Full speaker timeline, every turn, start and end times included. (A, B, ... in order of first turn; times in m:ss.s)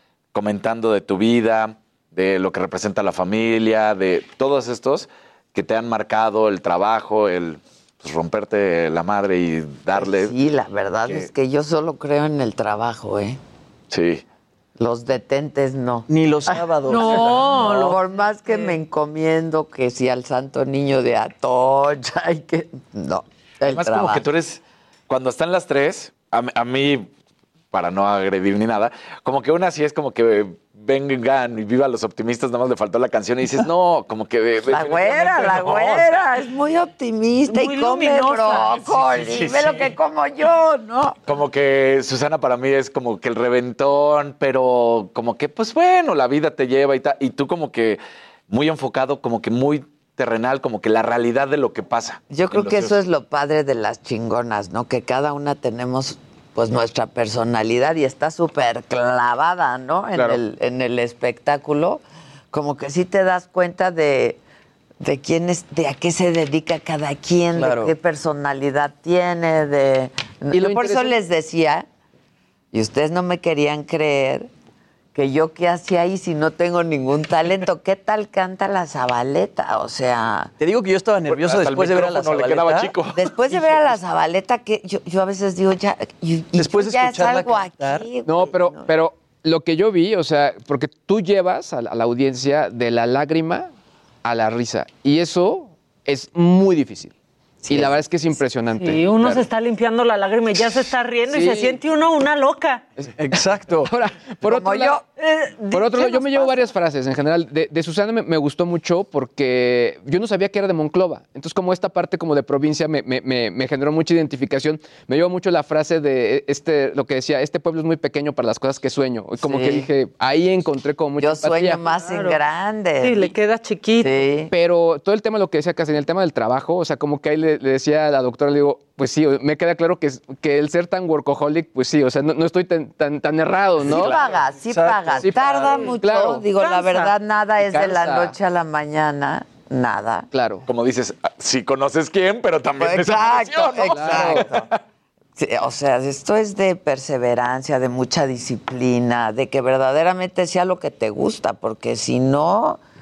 0:00.3-0:10.3 A
0:10.0-0:13.4 B
0:13.9-0:14.2 A
0:14.8-0:24.2 B
0:16.1-0:18.0 C
0:16.9-0:17.9 D
0:18.4-0:18.7 D
0:23.6-0:27.1 A
0:27.7-0:36.2 A
0:34.7-0:41.2 B
0:37.5-0:38.9 D
0:38.8-0:39.9 A
0:41.3-0:53.0 A
0:52.3-1:04.4 B
1:05.0-1:11.9 B
1:07.5-1:08.0 C
1:10.5-1:11.2 E
1:12.7-1:14.5 B
1:15.1-1:20.5 B
1:20.6-1:23.0 C
1:21.3-1:23.3 A
1:23.1-1:28.9 B
1:26.6-1:28.1 C
1:28.2-1:33.7 E
1:34.2-1:37.1 E
1:37.7-1:37.9 B
1:37.7-1:39.4 E
1:38.7-1:42.8 D
1:41.3-1:41.8 E
1:43.2-1:44.0 C
1:43.9-1:45.0 E
1:44.4-1:45.0 B
1:45.2-1:46.7 D
1:45.7-2:01.8 E
1:59.4-1:59.9 B
2:01.2-2:03.3 B
2:01.9-2:02.4 D
2:03.0-2:04.2 D
2:04.0-2:04.5 B
2:04.5-2:14.1 E
2:13.8-2:20.3 B
2:13.9-2:15.9 C
2:13.9-2:14.2 A
2:15.2-2:16.5 E
2:16.6-2:17.1 D
2:17.6-2:18.4 E
2:20.3-2:20.7 E
2:20.7-2:24.7 A
2:22.8-2:24.7 B
2:23.9-2:24.5 E
2:25.4-2:32.8 B